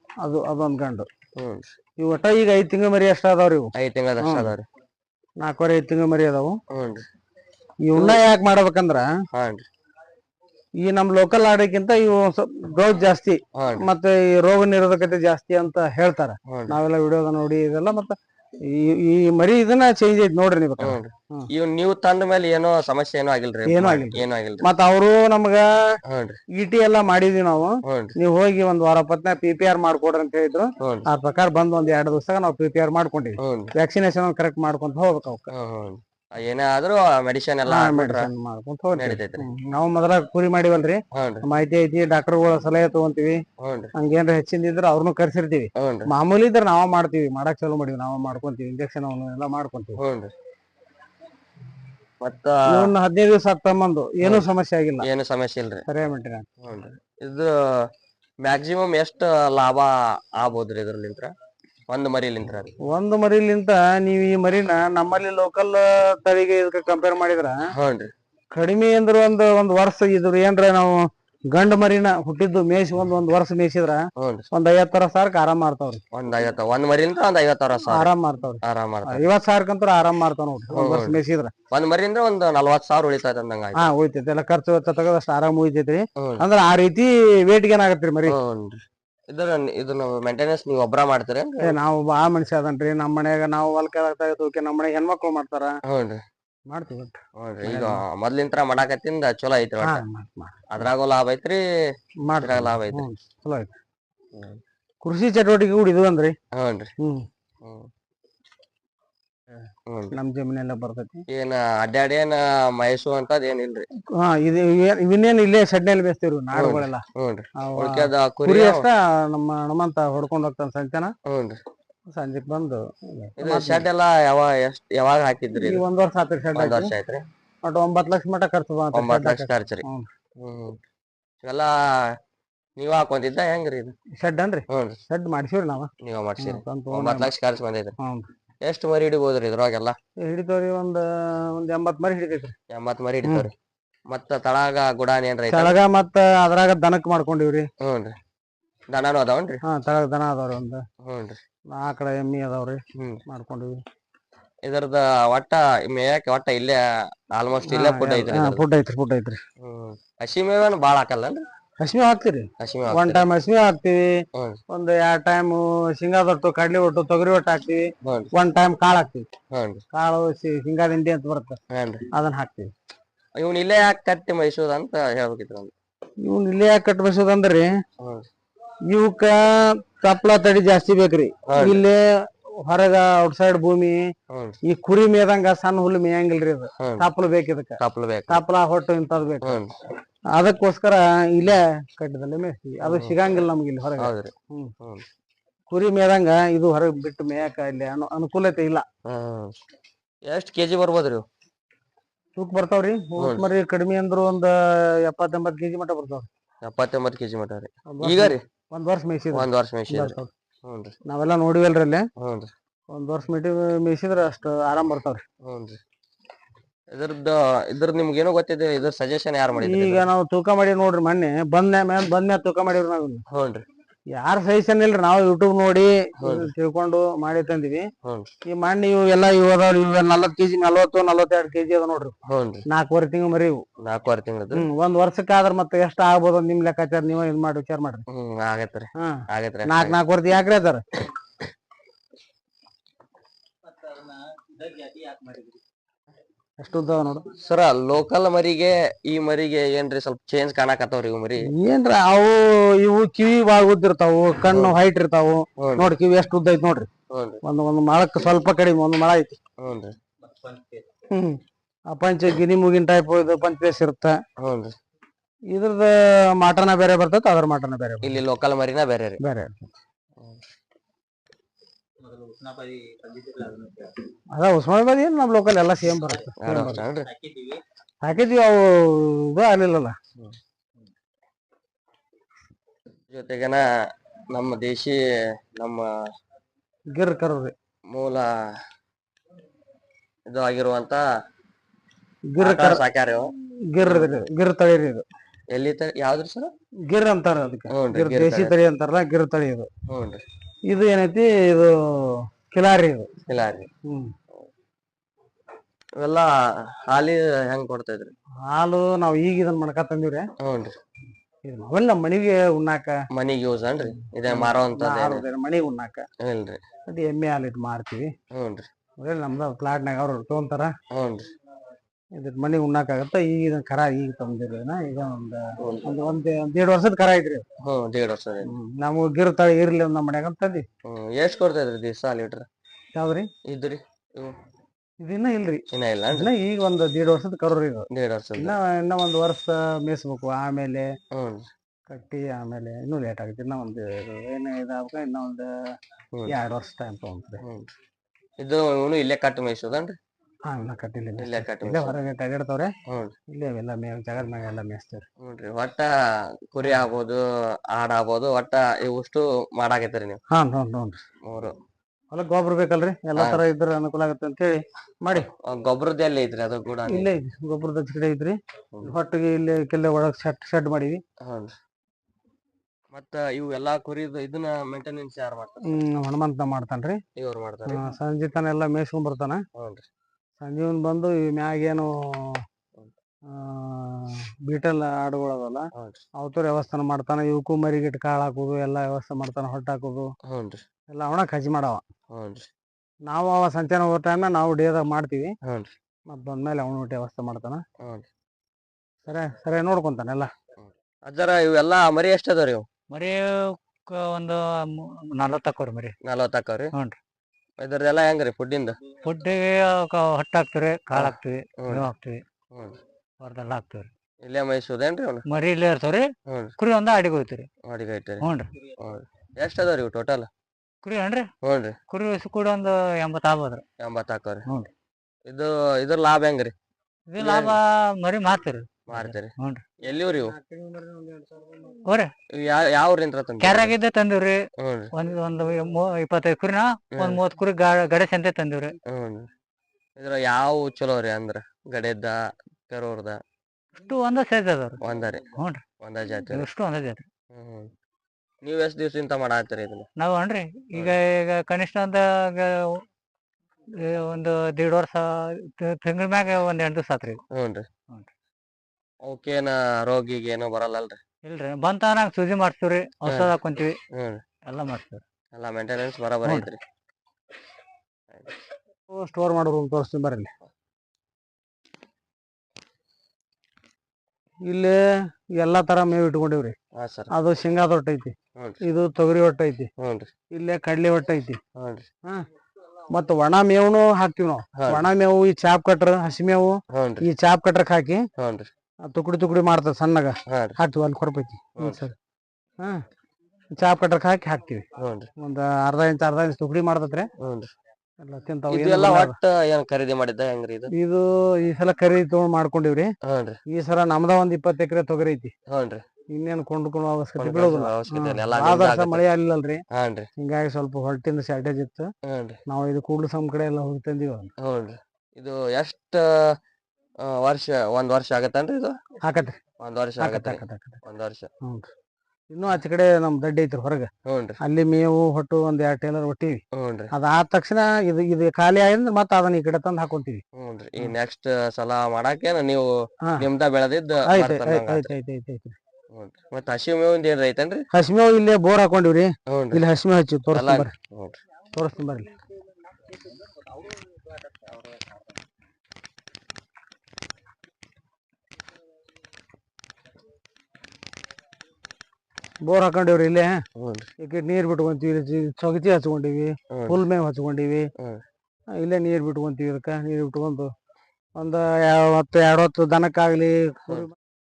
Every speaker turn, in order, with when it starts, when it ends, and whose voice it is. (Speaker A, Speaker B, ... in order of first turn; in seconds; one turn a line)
Speaker A: 0.2-1.1
Speaker B: 1.4-1.7
Speaker A: 2.0-4.5
Speaker B: 3.7-4.7
Speaker A: 5.4-6.5
Speaker B: 6.7-7.0
Speaker A: 7.8-9.1
Speaker B: 7.9-8.2
Speaker B: 9.3-9.7
Speaker A: 10.8-18.1
Speaker B: 13.5-13.8
Speaker B: 16.5-16.8
Speaker A: 18.7-21.5
Speaker B: 20.8-24.6
Speaker A: 23.7-25.7
Speaker B: 26.1-26.4
Speaker A: 26.6-35.5
Speaker B: 27.8-28.1
Speaker B: 30.8-31.1
Speaker B: 33.4-33.7
Speaker B: 35.5-38.3
Speaker A: 37.7-43.4
Speaker B: 38.9-39.4
Speaker B: 41.1-41.4
Speaker B: 43.6-43.9
Speaker A: 44.0-50.0
Speaker B: 45.8-46.1
Speaker B: 50.0-50.3
Speaker B: 52.2-52.9
Speaker A: 52.7-55.1
Speaker B: 55.0-55.8
Speaker A: 55.9-56.5
Speaker B: 56.6-57.9
Speaker B: 58.4-61.3
Speaker B: 61.9-62.7
Speaker A: 62.8-67.5
Speaker B: 67.7-68.1
Speaker A: 68.5-71.0
Speaker A: 71.5-76.0
Speaker B: 74.2-74.5
Speaker B: 76.1-78.1
Speaker A: 77.9-81.5
Speaker B: 78.6-79.2
Speaker B: 80.7-81.2
Speaker B: 81.7-83.9
Speaker A: 83.8-88.4
Speaker B: 86.2-86.4
Speaker B: 88.2-91.8
Speaker A: 91.6-95.7
Speaker B: 95.9-96.2
Speaker A: 96.7-98.0
Speaker B: 97.3-100.0
Speaker A: 99.8-100.7
Speaker B: 100.7-101.6
Speaker A: 102.3-103.7
Speaker B: 102.4-103.0
Speaker A: 105.0-106.3
Speaker B: 106.5-106.9
Speaker B: 107.6-107.9
Speaker B: 109.9-110.1
Speaker A: 110.1-111.2
Speaker B: 111.3-113.8
Speaker A: 114.2-117.0
Speaker B: 116.5-118.8
Speaker A: 117.6-121.1
Speaker B: 121.2-121.6
Speaker A: 122.1-123.8
Speaker B: 123.4-125.8
Speaker A: 125.5-126.9
Speaker B: 126.5-127.2
Speaker A: 127.6-130.1
Speaker B: 128.9-129.8
Speaker B: 130.4-130.8
Speaker B: 131.4-132.1
Speaker B: 132.8-133.9
Speaker A: 134.2-137.3
Speaker B: 134.7-135.0
Speaker B: 136.0-137.9
Speaker B: 138.6-139.9
Speaker A: 140.3-142.5
Speaker B: 142.7-143.5
Speaker B: 144.1-145.8
Speaker A: 145.5-147.7
Speaker B: 147.8-148.1
Speaker B: 148.9-149.6
Speaker A: 149.7-150.8
Speaker B: 151.0-151.4
Speaker A: 151.7-153.8
Speaker B: 152.9-153.2
Speaker B: 154.6-156.8
Speaker B: 157.3-158.6
Speaker A: 157.7-159.4
Speaker B: 159.6-161.4
Speaker A: 161.8-164.1
Speaker B: 162.6-163.2
Speaker B: 164.3-164.6
Speaker A: 164.7-169.2
Speaker B: 168.0-168.3
Speaker B: 169.5-169.8
Speaker A: 169.9-171.6
Speaker B: 171.7-172.1
Speaker A: 172.1-172.7
Speaker B: 173.4-175.7
Speaker A: 176.2-177.7
Speaker B: 178.0-178.2
Speaker A: 178.9-182.1
Speaker B: 181.4-181.8
Speaker A: 182.6-184.0
Speaker B: 184.3-184.6
Speaker A: 184.7-187.8
Speaker B: 186.8-187.1
Speaker B: 187.8-188.4
Speaker A: 188.3-189.6
Speaker B: 189.4-189.7
Speaker A: 190.3-194.7
Speaker B: 192.8-193.2
Speaker B: 194.0-195.0
Speaker A: 195.7-198.8
Speaker B: 199.1-199.5
Speaker B: 200.3-201.2
Speaker A: 202.3-206.3
Speaker B: 203.2-203.4
Speaker B: 206.6-208.4
Speaker A: 207.9-210.3
Speaker B: 209.3-210.9
Speaker A: 211.1-212.0
Speaker B: 212.2-212.5
Speaker A: 212.9-215.2
Speaker B: 215.4-215.8
Speaker B: 216.9-220.0
Speaker A: 219.6-223.2
Speaker B: 223.3-223.6
Speaker A: 224.1-227.8
Speaker B: 226.2-226.5
Speaker B: 228.0-228.3
Speaker A: 228.5-232.1
Speaker B: 232.3-232.6
Speaker A: 232.7-233.6
Speaker B: 233.8-234.7
Speaker A: 234.5-238.0
Speaker B: 238.1-240.0
Speaker A: 239.0-240.8
Speaker A: 246.6-247.2
Speaker B: 247.4-251.5
Speaker A: 251.4-256.9
Speaker B: 254.5-254.8
Speaker B: 255.6-255.9
Speaker B: 257.1-257.4
Speaker A: 257.4-259.4
Speaker B: 259.6-259.9
Speaker A: 261.1-261.4
Speaker A: 261.9-264.1
Speaker B: 264.4-264.7
Speaker A: 265.5-268.2
Speaker B: 268.0-269.2
Speaker A: 269.2-269.7
Speaker A: 274.3-276.8
Speaker B: 276.4-277.1
Speaker A: 278.0-279.9
Speaker B: 283.1-283.6
Speaker B: 284.3-285.0
Speaker B: 285.5-285.9
Speaker A: 286.9-287.5
Speaker B: 287.9-288.3
Speaker B: 290.3-291.0
Speaker A: 292.3-292.8
Speaker B: 292.4-293.3
Speaker A: 293.7-295.0
Speaker B: 293.8-294.2
Speaker B: 295.5-296.5
Speaker A: 296.9-299.7
Speaker B: 297.7-298.6
Speaker B: 299.9-300.2
Speaker A: 300.7-303.1
Speaker B: 303.3-303.7
Speaker A: 303.9-304.1
Speaker B: 306.0-308.1
Speaker A: 308.5-310.2
Speaker B: 310.4-310.7
Speaker A: 311.4-312.9
Speaker B: 313.1-315.2
Speaker A: 314.2-316.0
Speaker B: 316.2-316.6
Speaker A: 316.9-318.1
Speaker B: 318.3-318.6
Speaker A: 319.0-320.7
Speaker B: 320.9-321.3
Speaker A: 322.2-327.4
Speaker B: 325.6-325.9
Speaker B: 327.6-328.5
Speaker A: 328.4-330.6
Speaker B: 330.8-332.5
Speaker A: 332.9-333.3
Speaker B: 333.5-334.4
Speaker A: 335.0-335.6
Speaker B: 335.7-336.3
Speaker A: 336.1-337.9
Speaker B: 337.9-338.5
Speaker A: 338.4-340.9
Speaker B: 341.1-341.5
Speaker A: 341.9-345.5
Speaker A: 346.3-347.4
Speaker B: 347.4-347.7
Speaker B: 348.4-350.0
Speaker A: 350.5-352.7
Speaker B: 351.2-351.9
Speaker B: 352.9-353.1
Speaker A: 353.3-355.0
Speaker B: 355.2-355.9
Speaker B: 356.5-357.2
Speaker B: 357.7-360.2
Speaker A: 360.3-361.0
Speaker B: 361.2-361.5
Speaker A: 362.1-365.3
Speaker B: 363.1-363.4
Speaker B: 365.1-367.1
Speaker A: 366.9-371.0
Speaker B: 371.2-371.5
Speaker B: 372.9-375.8
Speaker A: 375.6-377.0
Speaker B: 377.2-377.9
Speaker A: 377.6-379.4
Speaker B: 379.6-379.8
Speaker A: 380.4-381.9
Speaker A: 383.3-385.6
Speaker B: 385.8-386.0
Speaker A: 386.2-390.1
Speaker B: 390.3-390.6
Speaker A: 390.9-391.8
Speaker B: 392.1-392.5
Speaker A: 393.1-395.3
Speaker B: 395.4-395.7
Speaker A: 396.1-397.6
Speaker A: 399.1-400.3
Speaker B: 400.6-402.6
Speaker C: 402.9-405.9
Speaker B: 406.0-406.7
Speaker B: 407.6-408.8
Speaker C: 409.0-412.2
Speaker B: 410.9-411.9
Speaker B: 412.5-412.8
Speaker C: 413.2-413.9
Speaker B: 414.2-415.2
Speaker C: 415.3-417.5
Speaker B: 416.3-416.5
Speaker B: 417.6-420.3
Speaker C: 418.2-418.5
Speaker C: 420.8-421.3
Speaker B: 421.4-421.8
Speaker C: 421.9-423.6
Speaker B: 423.8-424.4
Speaker B: 425.3-426.5
Speaker C: 427.1-429.6
Speaker B: 427.2-427.6
Speaker B: 428.9-429.3
Speaker B: 429.8-430.3
Speaker A: 430.1-431.8
Speaker C: 431.9-432.1
Speaker B: 432.3-433.8
Speaker C: 433.4-438.8
Speaker B: 434.6-434.9
Speaker B: 436.9-437.2
Speaker B: 438.8-439.3
Speaker B: 440.0-443.2
Speaker C: 443.8-445.6
Speaker B: 444.8-445.3
Speaker B: 445.8-446.5
Speaker C: 446.3-447.1
Speaker B: 447.3-447.7
Speaker B: 448.4-449.9
Speaker C: 450.0-452.8
Speaker C: 453.7-457.2
Speaker B: 457.3-457.6
Speaker B: 459.0-461.0
Speaker C: 461.2-463.8
Speaker B: 463.1-463.3
Speaker B: 463.9-464.2
Speaker C: 464.4-465.0
Speaker B: 465.3-466.6
Speaker A: 468.9-470.3
Speaker A: 474.5-474.8
Speaker A: 475.4-476.5
Speaker B: 476.8-477.1
Speaker A: 477.1-479.7
Speaker B: 479.8-480.1
Speaker A: 480.3-481.4
Speaker B: 481.6-481.9
Speaker A: 482.9-488.0
Speaker B: 484.5-484.8
Speaker B: 486.7-487.1
Speaker B: 488.2-488.5
Speaker A: 488.9-491.9
Speaker B: 490.3-490.6
Speaker B: 491.6-491.8
Speaker A: 493.6-494.6
Speaker B: 494.8-495.1
Speaker A: 495.2-497.1
Speaker B: 497.2-497.5
Speaker A: 498.0-499.2
Speaker B: 498.5-500.7
Speaker A: 500.7-502.9
Speaker B: 503.0-503.4
Speaker A: 503.5-505.3
Speaker B: 505.5-505.8
Speaker A: 506.1-509.6
Speaker B: 507.2-509.0
Speaker B: 509.7-510.1
Speaker A: 510.2-511.9
Speaker B: 512.0-512.4
Speaker A: 512.5-514.3
Speaker B: 514.4-516.1
Speaker B: 517.0-518.8
Speaker A: 519.0-519.4
Speaker B: 519.6-521.3
Speaker A: 520.0-520.8
Speaker A: 521.4-521.7
Speaker A: 522.3-523.9
Speaker B: 524.0-524.4
Speaker A: 524.4-526.4
Speaker B: 526.5-526.9
Speaker A: 526.9-530.2
Speaker B: 530.4-534.9
Speaker A: 534.1-535.6
Speaker B: 535.9-537.6
Speaker A: 537.7-540.7
Speaker B: 539.3-539.6
Speaker B: 540.3-541.2
Speaker A: 541.5-542.2
Speaker A: 552.5-553.4
Speaker B: 553.6-553.9
Speaker A: 554.0-557.7
Speaker B: 556.5-556.8
Speaker A: 558.6-560.5
Speaker A: 561.2-563.9